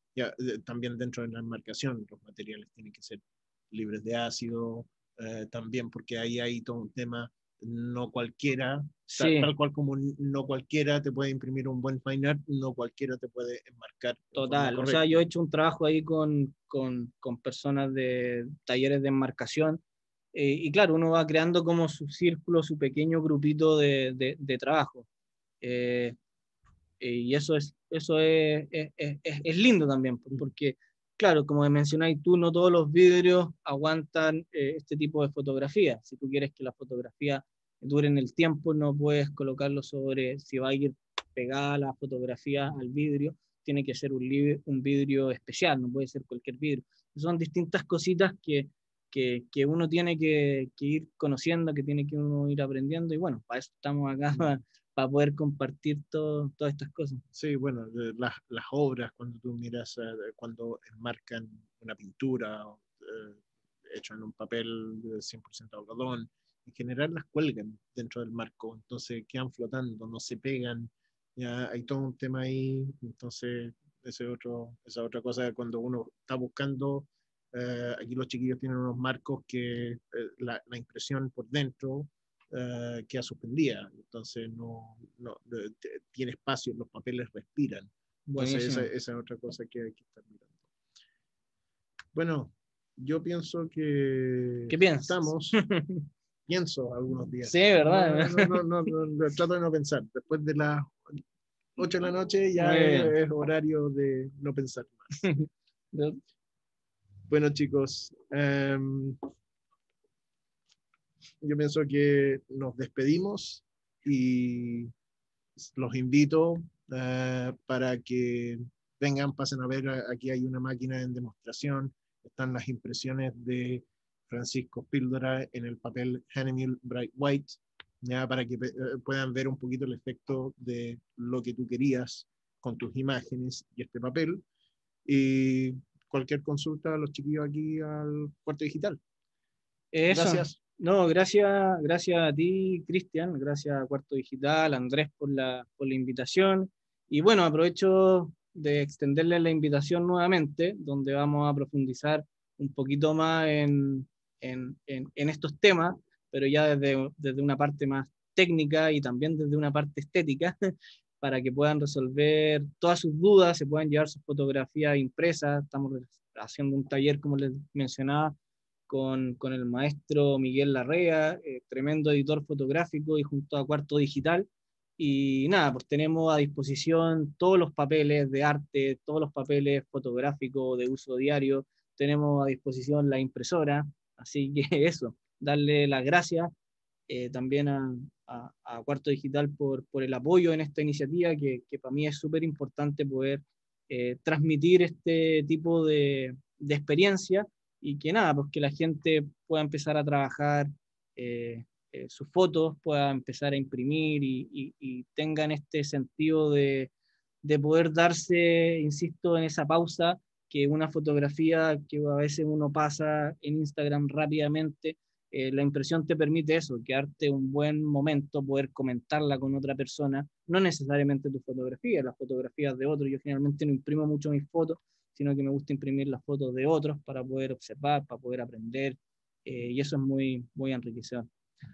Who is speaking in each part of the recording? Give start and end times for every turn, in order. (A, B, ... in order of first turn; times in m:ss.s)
0:00.2-0:15.2 A
0:09.1-0:09.5 B
0:14.4-0:19.8 B
0:20.3-0:25.1 B
0:25.6-0:26.2 B
0:27.0-0:57.2 B
0:57.4-1:30.7 A
1:28.3-1:28.9 B
1:32.1-1:35.6 A
1:34.7-1:36.0 B
1:36.5-1:41.2 A
1:37.4-1:38.6 B
1:41.8-1:45.3 A
1:42.6-1:43.1 B
1:45.2-1:46.2 B
1:47.3-1:49.2 A
1:51.4-1:54.9 A
1:55.6-2:14.4 A
2:15.1-2:19.0 A
2:19.9-2:40.6 B
2:20.1-2:20.6 A
2:41.2-2:48.4 B
2:48.9-3:06.5 B
3:07.1-3:26.9 B
3:27.4-3:51.3 B